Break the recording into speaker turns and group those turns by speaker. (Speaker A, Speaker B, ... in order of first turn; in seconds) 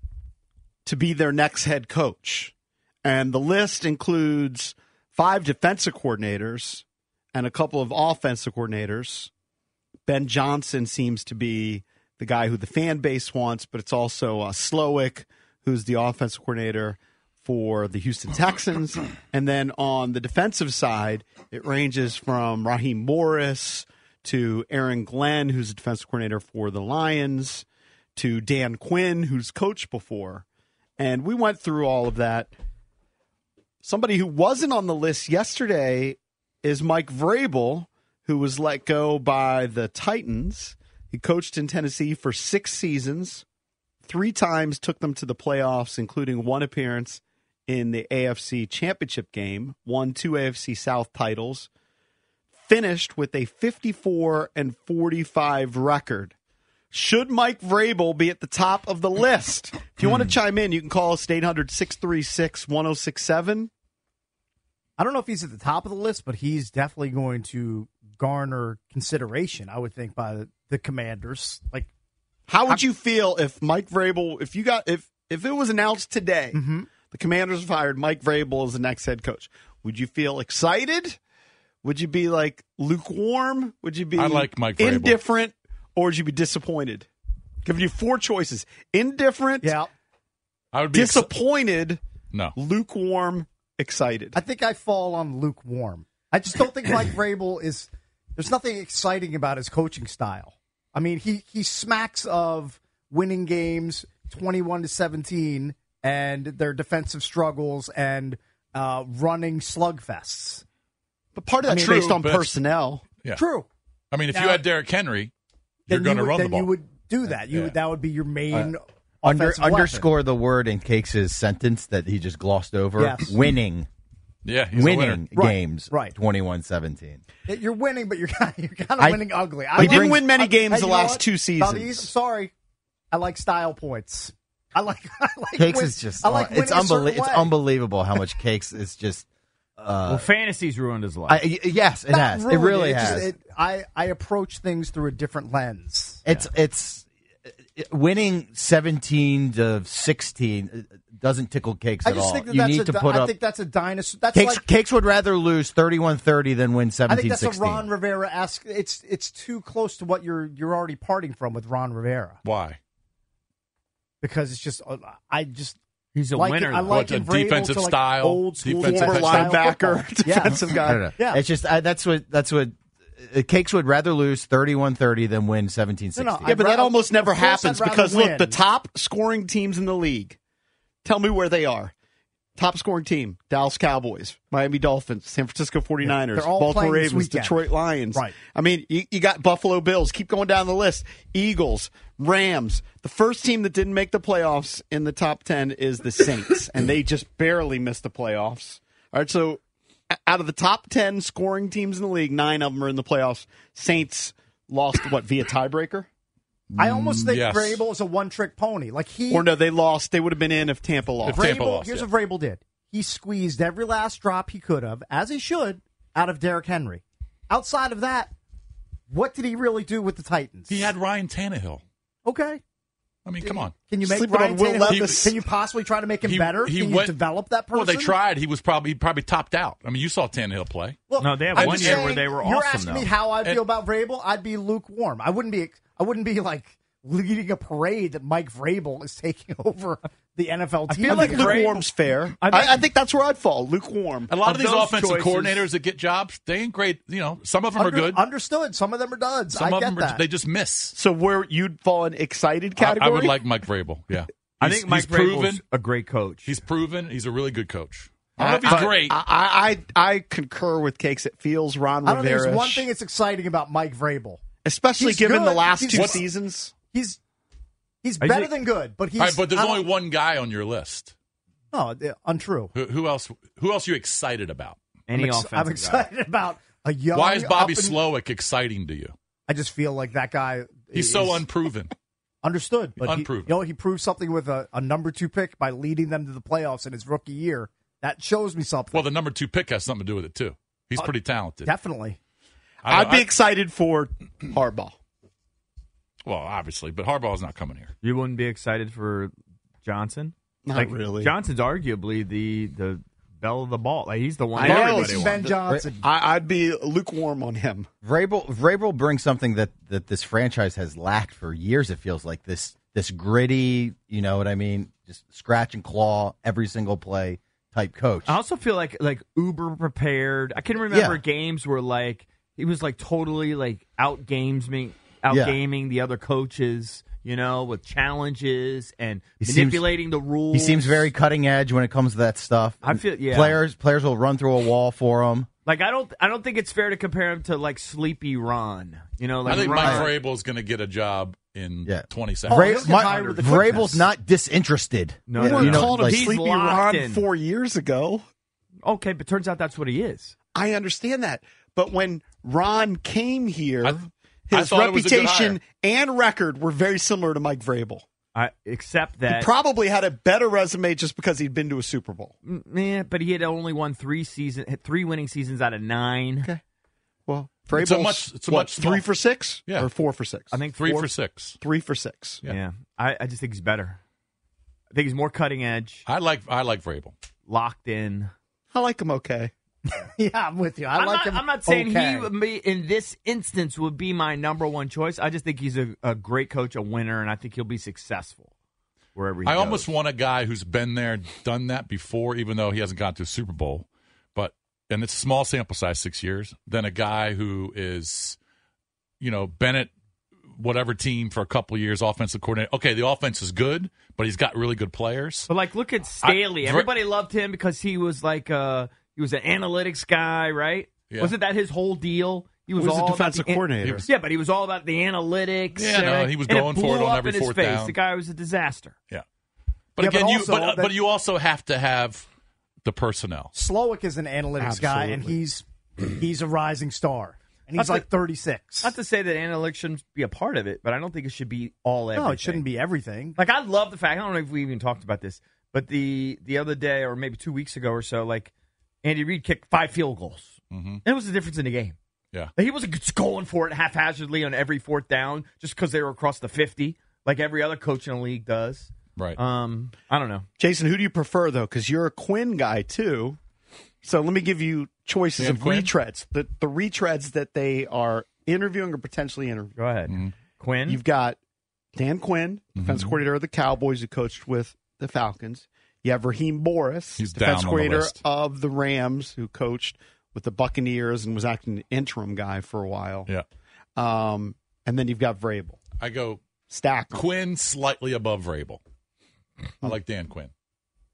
Speaker A: 0.8-2.5, 3.0-9.3, 10.1-27.6, 28.1-30.4, 31.0-32.5, 33.8-43.4, 44.0-51.7, 52.6-56.3, 56.9-63.7, 72.5-81.2, 81.8-87.1, 87.6-89.7, 90.9-92.0, 92.5-94.4, 111.3-113.2, 129.8-132.1, 168.8-171.1, 176.4-180.4, 181.0-181.9, 182.6-206.1, 209.3-211.4, 224.0-225.3, 241.0-244.4, 250.9-253.4, 258.4-262.9, 264.6-266.7, 292.9-294.9, 300.6-301.3, 304.6-307.9, 345.4-348.2, 350.5-358.1, 359.3-362.3, 367.2-370.5, 371.6-372.5, 378.7-379.5, 412.8-414.1, 424.6-425.4, 450.6-453.4, 454.0-459.8, 460.9-461.4, 461.9-473.3, 473.9-475.8, 476.7-477.2
Speaker B: 65.0-71.9, 76.5-76.9, 89.6-89.9, 94.3-110.6, 111.6-112.2, 113.3-113.7, 114.3-114.6, 115.9-120.1, 123.0-123.4, 125.3-126.2, 127.5-132.5, 133.1-137.5, 142.1-146.2, 152.0-154.6, 157.1-162.4, 164.2-165.8, 166.3-171.4, 176.2-178.6, 186.0-188.4, 206.8-209.5, 211.2-218.3, 219.1-220.9, 222.2-222.6, 223.4-228.1, 231.1-241.8, 247.8-250.2, 262.0-266.2, 266.8-267.2, 268.0-269.9, 271.7-272.7, 275.1-278.0, 279.5-281.4, 282.4-289.1, 291.6-292.2, 304.6-306.0, 342.5-344.1, 379.9-382.3, 420.0-420.9, 423.5-428.9, 432.1-433.4
Speaker C: 84.2-85.2, 90.7-91.3, 111.9-112.5, 114.1-115.3, 115.9-116.7, 117.5-117.8, 124.4-125.3, 162.4-162.8, 166.9-169.6, 206.7-207.8, 211.2-212.1, 220.7-221.8, 223.2-223.7, 224.9-225.2, 226.2-227.2, 227.7-231.0, 231.6-232.2, 244.3-248.2, 249.5-250.9, 252.8-255.6, 256.4-259.2, 265.9-266.2, 269.2-271.1, 272.7-274.8, 277.1-279.1, 280.9-281.9, 283.0-283.5, 288.9-291.7, 292.8-293.4, 296.2-297.9, 339.4-342.7, 354.5-355.6, 367.7-369.1, 369.6-369.9, 370.7-371.6, 376.1-377.1, 389.4-398.4, 399.2-399.9, 400.6-405.5, 406.2-406.9, 411.1-411.3, 413.8-414.1, 415.8-417.9, 419.9-422.2, 422.8-423.5, 440.7-441.0, 455.4-455.9, 462.8-463.2, 467.2-468.2, 476.0-476.4, 477.1-478.8, 479.8-480.5
Speaker D: 119.2-123.9, 124.7-127.2, 129.0-129.2, 129.8-130.2, 135.6-139.3, 139.8-140.3, 141.3-143.3, 146.2-147.1, 147.7-153.3, 154.3-157.9, 170.8-176.5, 308.0-318.4, 320.9-321.2, 325.3-325.6, 329.4-329.9, 330.5-335.5, 339.5-340.1, 341.8-346.2
Speaker E: 140.1-141.4, 166.1-167.0, 231.2-233.1, 240.9-241.7, 242.4-242.8, 244.4-245.7, 254.6-256.5, 268.2-268.5, 275.1-276.1, 298.0-299.3, 299.8-305.4, 318.3-331.1, 332.8-333.6, 335.6-340.1, 342.9-343.5, 345.3-347.2, 348.8-350.3, 358.3-359.5, 362.4-366.5, 370.5-371.1, 372.5-374.0, 374.9-376.0, 377.5-378.3, 380.9-388.5, 389.1-389.9, 405.5-418.9, 427.7-428.1, 428.8-432.6, 433.4-438.5, 439.0-440.5, 441.0-441.9, 442.6-450.5, 459.8-461.0